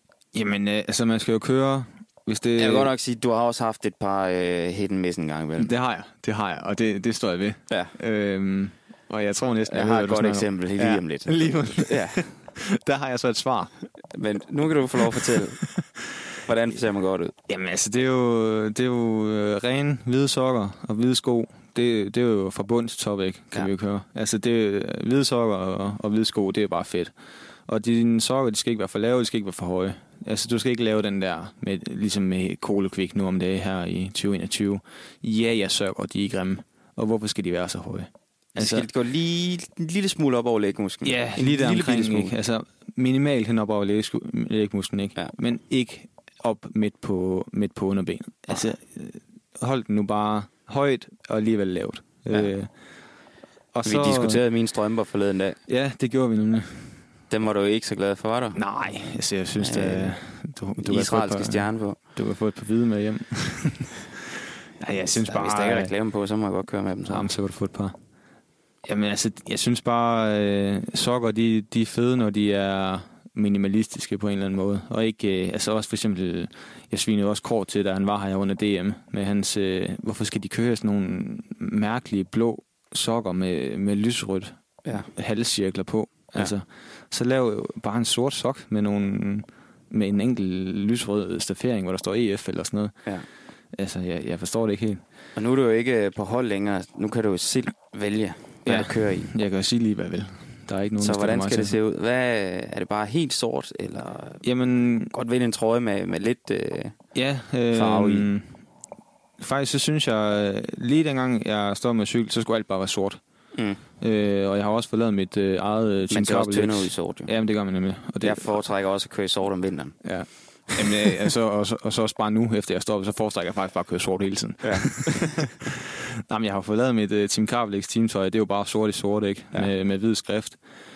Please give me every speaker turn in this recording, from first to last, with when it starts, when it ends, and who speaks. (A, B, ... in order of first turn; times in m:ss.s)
0:00.3-0:02.9 A
0:02.6-0:05.7 B
0:05.6-0:13.7 A
0:09.7-0:12.3 B
0:14.1-0:15.6 B
0:15.0-0:15.8 A
0:16.4-0:17.3 B
0:17.5-0:27.1 A
0:27.7-0:38.9 A
0:38.6-0:42.3 B
0:41.0-0:52.7 A
0:53.7-0:54.4 A
0:53.8-0:55.6 B
0:55.7-0:57.0 A
0:57.3-0:58.6 B
0:58.6-1:04.3 A
0:59.6-1:00.2 B
1:00.8-1:02.0 B
1:04.8-1:05.9 A
1:05.2-1:07.3 B
1:07.1-1:08.0 A
1:08.8-1:33.0 A
1:33.7-1:35.0 A
1:35.4-1:39.3 B
1:38.7-1:41.8 A
1:41.0-1:44.4 B
1:44.4-1:45.1 A
1:45.1-1:47.0 B
1:47.2-1:48.6 A
1:47.7-1:48.3 B
1:49.4-1:53.2 A
1:53.6-1:53.8 B
1:54.0-1:58.5 A
1:56.1-1:57.3 B
1:58.2-2:00.0 B
2:00.0-2:10.6 A
2:04.6-2:05.5 B